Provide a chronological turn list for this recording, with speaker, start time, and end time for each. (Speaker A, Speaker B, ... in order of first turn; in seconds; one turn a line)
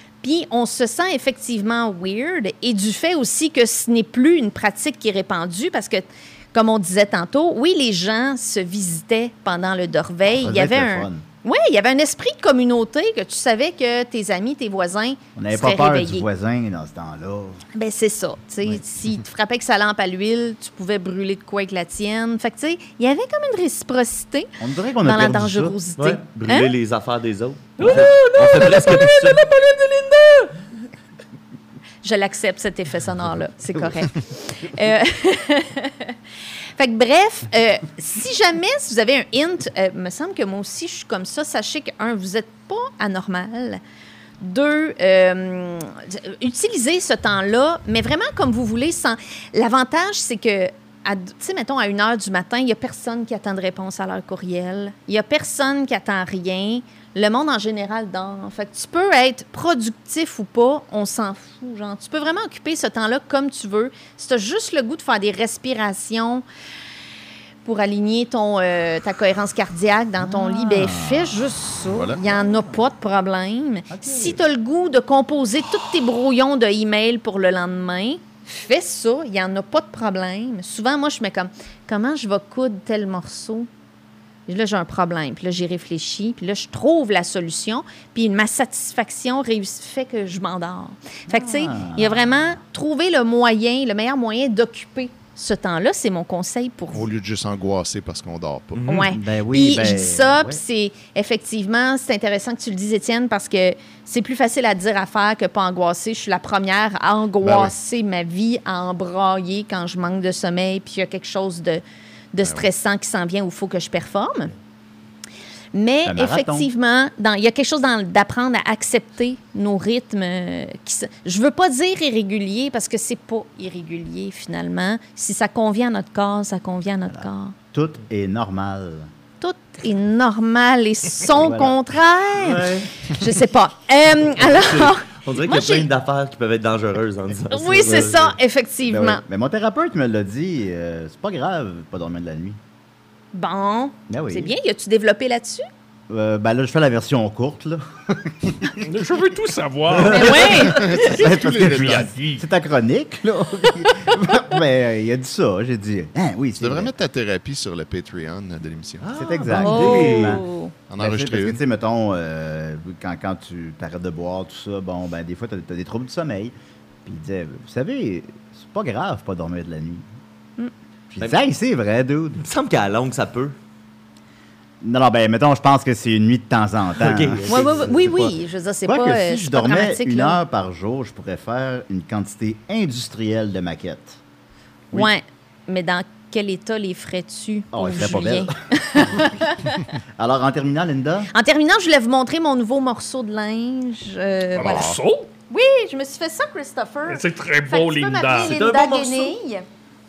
Speaker A: 0.2-16.3
Speaker B: 10.3-11.2
Speaker B: 15.4-17.6
Speaker A: 17.8-24.5
Speaker B: 24.6-25.8
Speaker A: 25.0-26.7
Speaker C: 26.0-29.4
Speaker D: 27.8-30.5
Speaker A: 32.0-36.1
Speaker A: 36.8-43.8
Speaker A: 44.4-66.5
Speaker A: 67.6-83.7
Speaker B: 70.2-71.5
Speaker E: 71.9-72.2
Speaker B: 72.2-72.8
Speaker B: 73.9-74.4
Speaker A: 84.5-97.1
Speaker B: 91.3-92.6
Speaker E: 96.9-99.1
Speaker C: 98.8-99.0
Speaker A: 98.9-114.5
Speaker B: 99.1-100.6
Speaker E: 107.4-107.7
Speaker E: 112.4-112.7
Speaker A: 115.7-127.5
Speaker B: 116.0-116.7
Speaker B: 127.1-129.1
Speaker A: 129.4-135.9
Speaker B: 131.3-131.8
Speaker C: 134.4-138.3
Speaker A: 137.5-139.2
Speaker B: 138.9-142.6
Speaker A: 143.3-145.7
Speaker B: 144.1-144.5
Speaker B: 146.1-148.8
Speaker D: 148.8-152.5
Speaker B: 149.9-156.9
Speaker A: 150.1-150.9
Speaker E: 150.5-152.1
Speaker E: 156.6-159.1
Speaker C: 159.0-160.4
Speaker B: 159.1-160.4
Speaker A: 159.5-160.7
Speaker E: 160.9-161.6
Speaker B: 161.0-166.5
Speaker B: 167.1-170.1
Speaker B: 171.1-172.4
Speaker C: 172.4-173.6
Speaker B: 174.8-184.2
Speaker C: 177.0-178.1
Speaker A: 177.5-180.4
Speaker A: 184.9-189.9
Speaker B: 187.7-188.5
Speaker B: 190.2-191.3
Speaker A: 191.3-194.9
Speaker D: 194.6-195.3
Speaker E: 194.6-195.0
Speaker A: 195.5-199.7
Speaker D: 197.1-198.6
Speaker C: 198.4-199.3